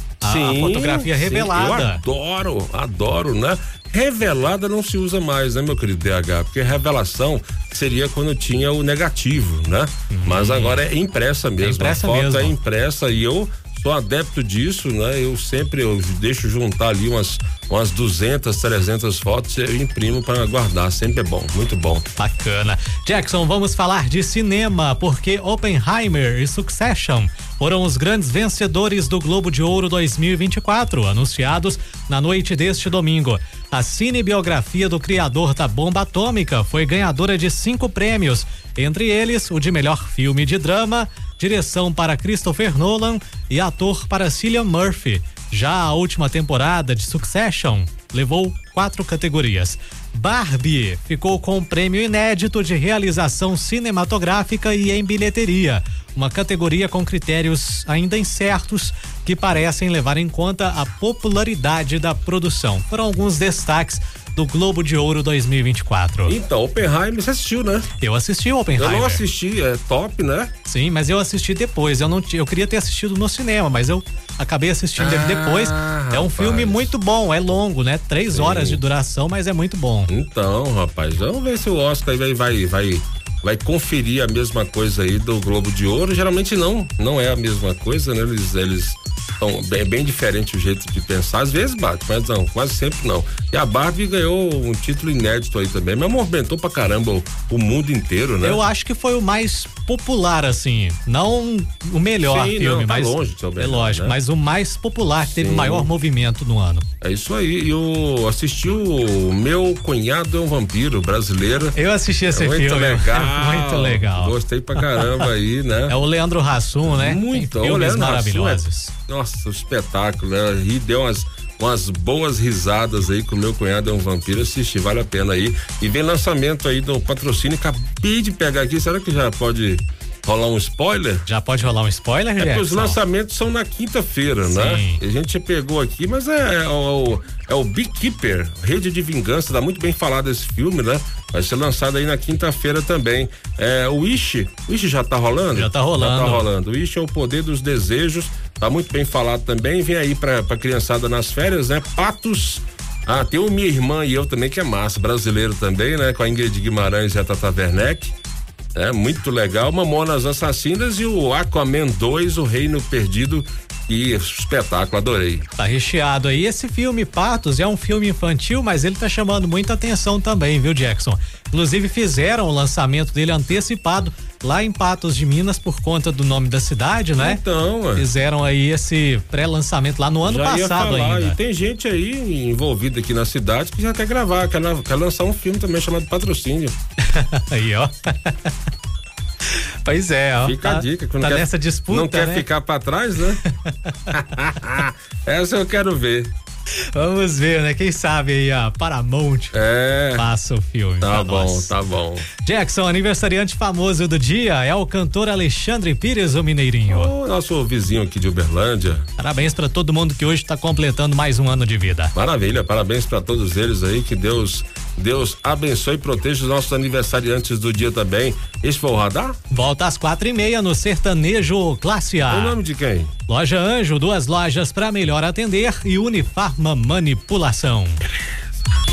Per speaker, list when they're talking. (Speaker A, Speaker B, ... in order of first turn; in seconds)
Speaker A: 0.2-2.0, 10.1-10.8, 11.6-12.5, 22.2-66.4, 68.0-69.2, 70.6-80.1, 98.4-106.9, 111.7-115.3, 115.9-118.9, 131.2-133.0, 134.4-135.0, 145.5-146.4, 165.6-177.4, 177.9-181.4, 187.0-188.5, 189.8-192.5, 193.3-194.1, 196.9-201.7, 202.4-207.1, 209.2-212.1, 219.5-222.6, 223.3-228.0
Speaker B: 0.2-22.1, 66.2-67.9, 68.8-70.5, 75.0-76.9, 78.3-78.8, 80.1-98.6, 102.2-104.2, 105.3-105.9, 107.0-111.8, 112.3-116.0, 116.9-131.2, 132.4-158.1, 158.7-165.4, 177.2-178.1, 180.2-186.8, 190.4-193.4, 194.1-196.3, 199.5-200.3, 201.0-202.3, 206.9-209.1, 212.1-219.4, 222.3-223.1